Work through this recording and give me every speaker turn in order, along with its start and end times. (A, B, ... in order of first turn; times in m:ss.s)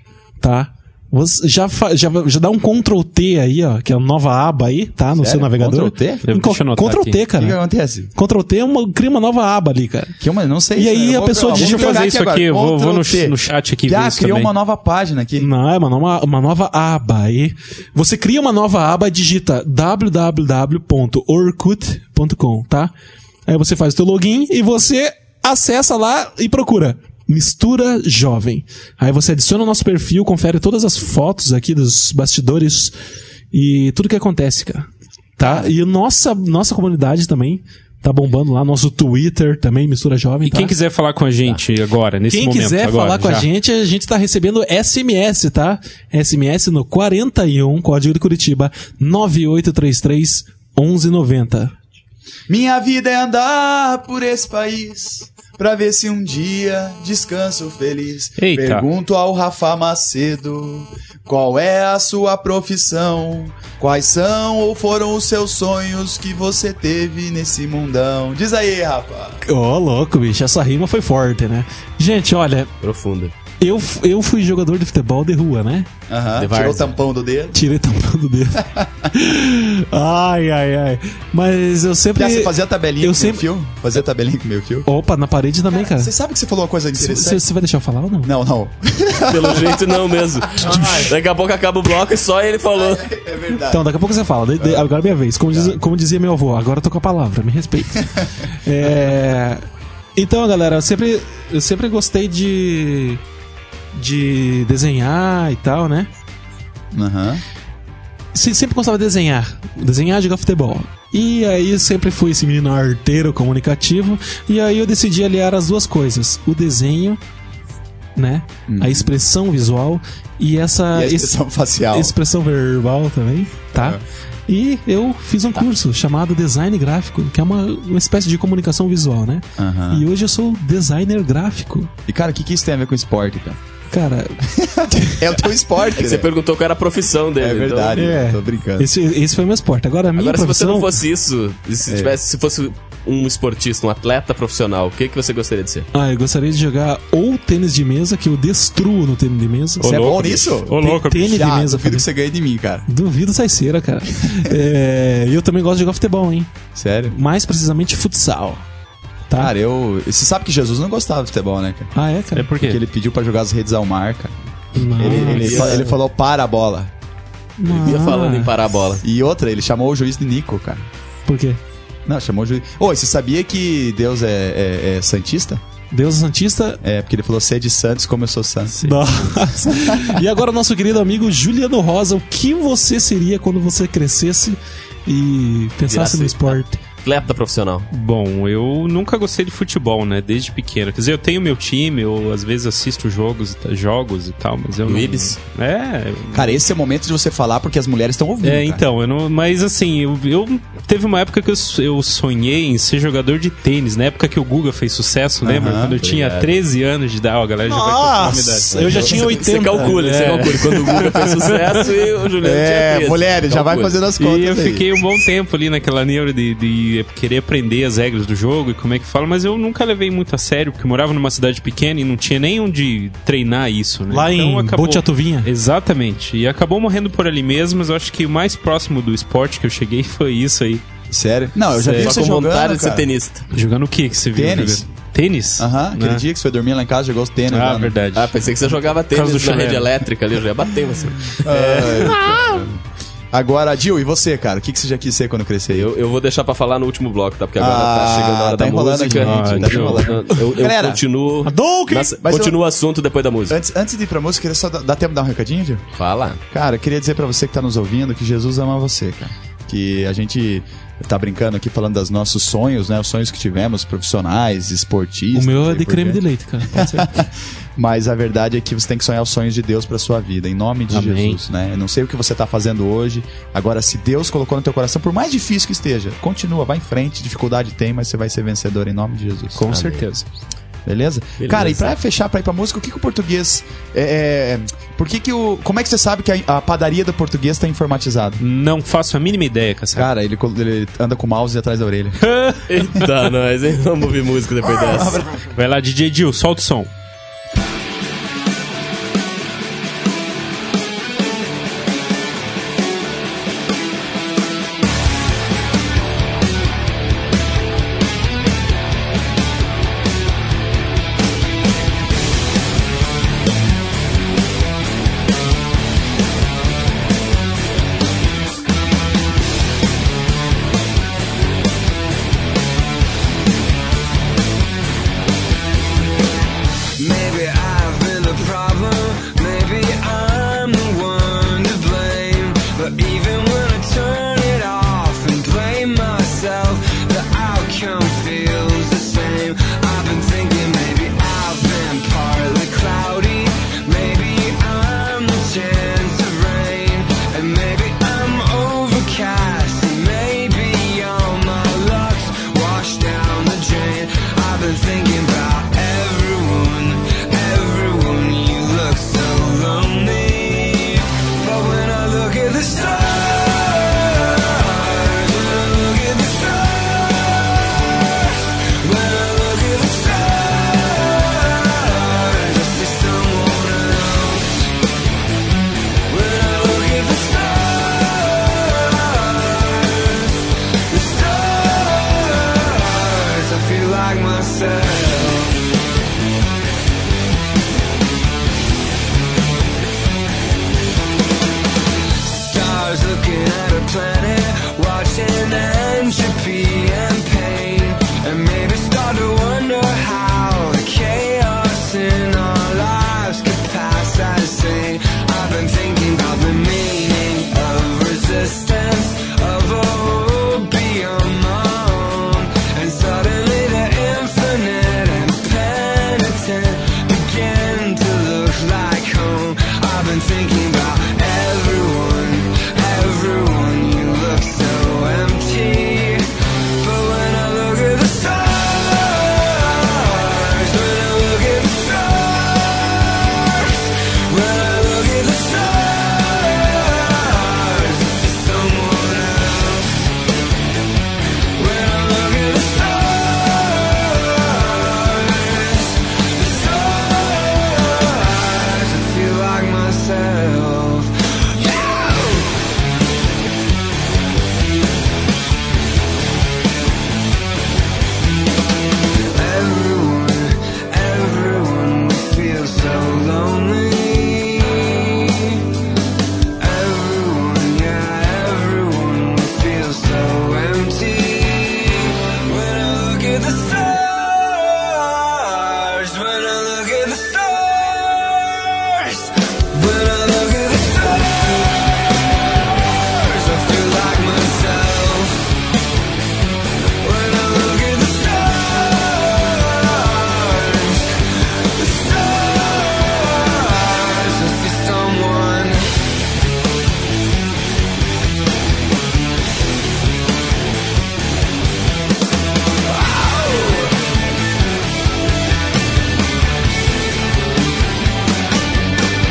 0:00.4-0:07.6 A
0:05.2-0:06.2 B
0:06.2-0:07.2 C
0:07.4-0:08.1 B
0:08.1-0:10.1 A
0:10.2-0:15.5 B
0:10.7-0:12.0 A
0:11.5-0:14.5 C
0:15.4-0:22.9 A
0:23.5-0:32.9 A
0:33.5-0:40.7 A
0:40.4-0:43.5 C
0:42.3-0:51.7 A
0:52.5-1:09.4 B
0:58.4-0:58.8 C
1:09.4-1:12.7 A
1:12.8-1:13.3 D
1:13.6-1:15.9 A
1:16.1-1:17.6 B
1:16.4-1:16.9 D
1:17.5-1:23.5 A
1:22.1-1:24.9 B
1:24.8-1:26.1 A
1:25.7-1:27.4 B
1:27.0-1:28.3 A
1:28.2-1:30.0 B
1:29.3-1:33.1 D
1:30.6-1:31.0 B
1:30.6-1:31.1 A
1:32.7-1:33.9 B
1:33.7-1:38.1 A
1:34.6-1:34.9 B
1:38.6-1:39.6 A
1:40.2-1:43.2 A
1:43.9-1:46.1 A
1:46.9-1:47.4 B
1:48.3-1:57.2 A
1:58.2-2:01.4 A
1:58.7-1:59.2 B
2:00.9-2:02.1 B
2:01.9-2:11.9 A
2:03.7-2:04.0 B
2:09.6-2:10.0 B
2:12.1-2:13.6 B
2:13.9-2:14.4 A
2:14.4-2:16.3 B
2:15.0-2:15.2 A
2:16.0-2:18.0 D
2:17.4-2:18.9 B
2:17.9-2:20.9 A
2:20.2-2:25.9 D
2:21.8-2:22.1 B
2:25.9-2:30.2 A
2:29.8-2:31.4 C
2:29.8-2:32.8 B
2:30.7-2:32.0 A
2:32.9-2:36.5 A
2:36.7-2:37.2 B
2:37.1-2:38.6 A
2:39.4-2:41.9 B
2:41.9-2:42.5 A
2:42.3-2:42.8 C
2:42.6-2:44.3 B
2:44.7-2:45.7 A
2:44.9-2:46.9 B
2:45.0-2:46.0 D
2:47.6-2:48.5 A
2:47.7-2:49.0 D
2:49.0-2:50.9 B
2:51.2-2:51.6 A
2:52.0-2:55.6 B
2:55.9-2:56.8 A
2:56.8-2:58.8 B
2:58.8-2:59.5 C
2:58.8-3:06.8 A
2:59.6-3:00.2 B
3:05.8-3:07.9 D
3:07.9-3:16.6 C
3:14.8-3:15.4 D
3:16.3-3:18.8 B
3:18.4-3:29.2 C
3:25.4-3:26.0 B
3:26.0-3:26.6 D
3:27.7-3:30.0 A
3:28.7-3:34.0 D
3:29.8-3:31.8 C
3:32.4-3:34.9 B
3:34.2-3:50.8 C
3:44.1-3:45.5 A
3:51.1-3:53.1 B
3:51.7-3:52.2 C
3:52.0-3:53.5 D
3:53.5-3:56.2 C
3:54.3-3:54.8 B
3:55.6-3:57.9 B
3:57.5-3:58.3 C
3:58.1-4:02.2 D
3:59.1-3:59.9 C
4:01.4-4:02.8 B
4:03.3-4:05.9 B
4:05.7-4:13.6 D
4:07.6-4:11.0 B
4:09.1-4:10.2 C
4:11.4-4:12.1 A
4:12.2-4:12.6 B
4:13.5-4:15.8 B
4:16.0-4:16.4 D
4:16.5-4:39.6 B
4:25.3-4:27.1 A
4:30.9-4:31.4 C
4:39.5-4:40.2 C
4:39.7-4:40.1 D
4:40.8-4:48.4 B
4:41.4-4:42.0 D
4:48.4-4:50.1 C
4:50.0-4:52.2 B
4:52.2-4:52.6 C
4:52.7-4:55.3 D
4:54.8-4:55.4 B
4:55.5-4:56.9 C
5:27.0-6:14.7 E
6:16.1-6:25.6 E
6:32.2-7:20.1 E
7:21.6-7:32.6 E
7:39.3-7:45.6 E
7:46.6-8:02.0 E
8:02.7-8:05.4 E
8:07.0-8:11.1 E
8:11.7-8:16.0 E
8:22.8-8:24.0 E